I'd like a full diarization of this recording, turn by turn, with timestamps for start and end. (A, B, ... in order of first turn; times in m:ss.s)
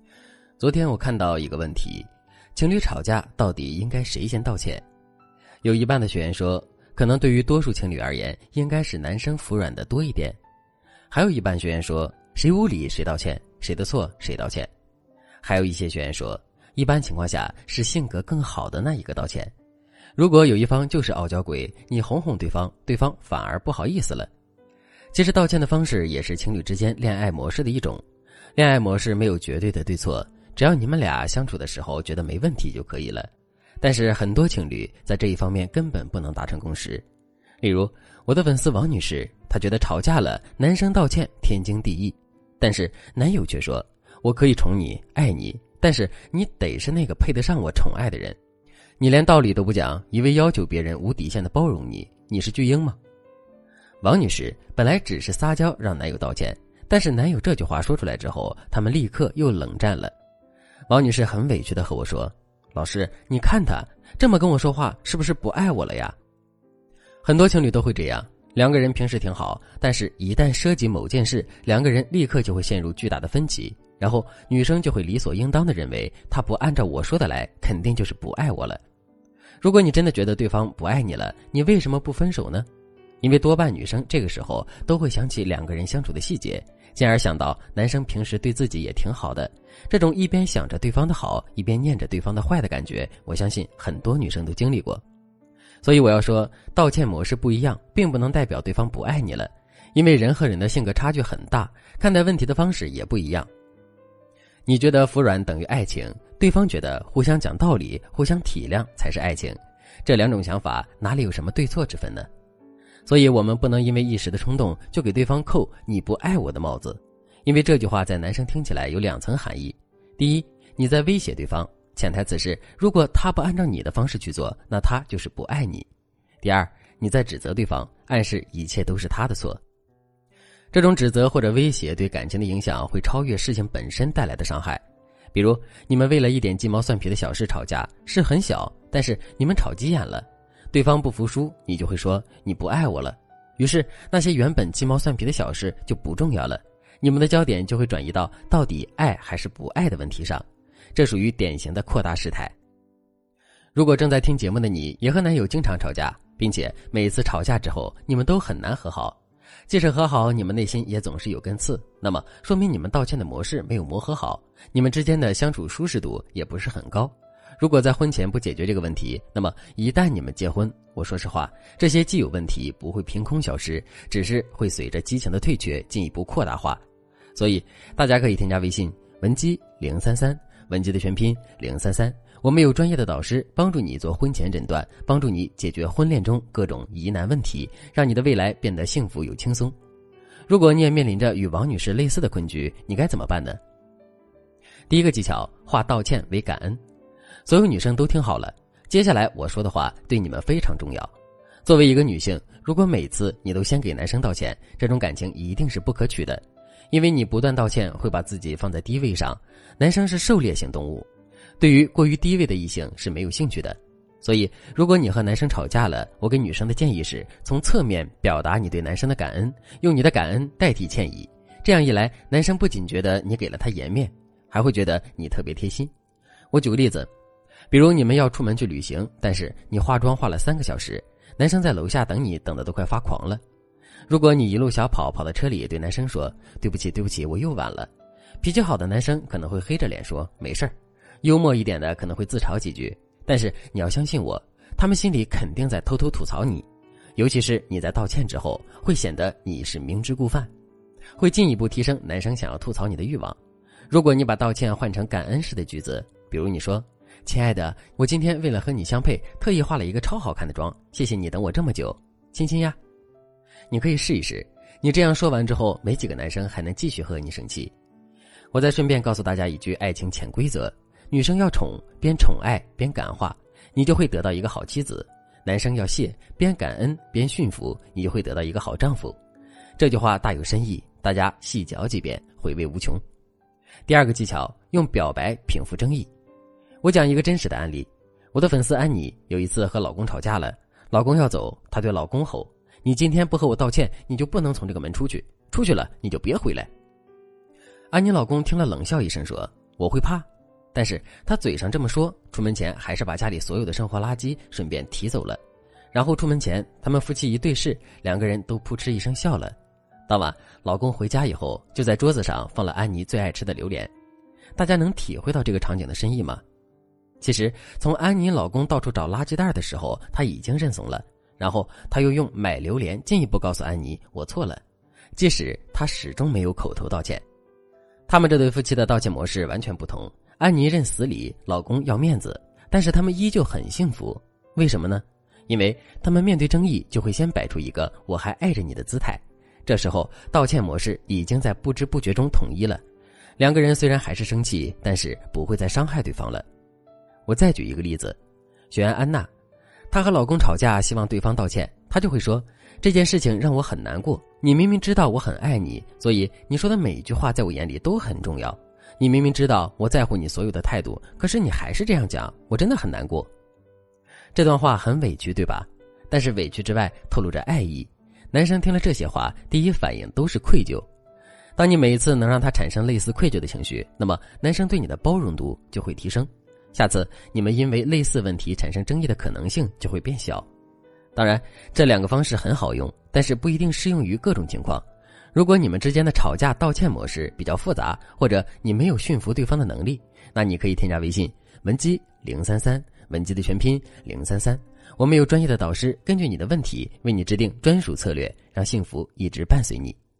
0:00.6-0:04.8 A
0:05.6-0:10.4 A
0:11.1-0:14.7 A
0:15.4-0:19.5 A
0:20.2-0:24.3 A
0:25.1-0:28.0 A
0:28.6-0:33.3 A
0:33.8-0:37.0 A
0:37.6-0:48.4 A
0:49.0-0:53.0 A
0:54.0-1:00.1 A
1:00.9-1:06.2 A
1:07.2-1:18.8 A
1:19.6-1:22.7 A
1:23.2-1:35.0 A
1:35.8-1:43.5 A
1:44.7-1:52.3 A
1:53.1-2:05.9 A
2:06.4-2:09.6 A
2:10.7-2:32.5 A
2:33.7-2:39.2 A
2:39.7-2:56.8 A
2:57.3-3:09.7 A
3:10.5-3:13.6 A
3:14.9-3:16.8 A
3:17.4-3:21.1 A
3:21.6-3:31.1 A
3:31.6-3:45.9 A
3:46.5-3:47.1 A
3:47.7-3:53.4 A
3:54.1-3:57.9 A
3:58.4-4:10.5 A
4:11.2-4:13.4 A
4:13.9-4:22.8 A
4:23.7-4:27.7 A
4:28.5-4:39.2 A
4:39.8-4:43.0 A
4:43.9-4:46.1 A
4:46.8-4:56.7 A
4:57.9-5:05.4 A
5:05.9-5:09.6 A
5:10.1-5:13.9 A
5:14.6-5:16.4 A
5:17.2-5:24.6 A
5:25.2-5:27.2 A
5:28.1-5:42.8 A
5:43.4-5:46.4 A
5:47.3-5:48.2 A
5:48.7-5:49.3 A
5:49.9-6:03.3 A
6:04.3-6:10.8 A
6:11.6-6:20.5 A
6:21.2-6:40.0 A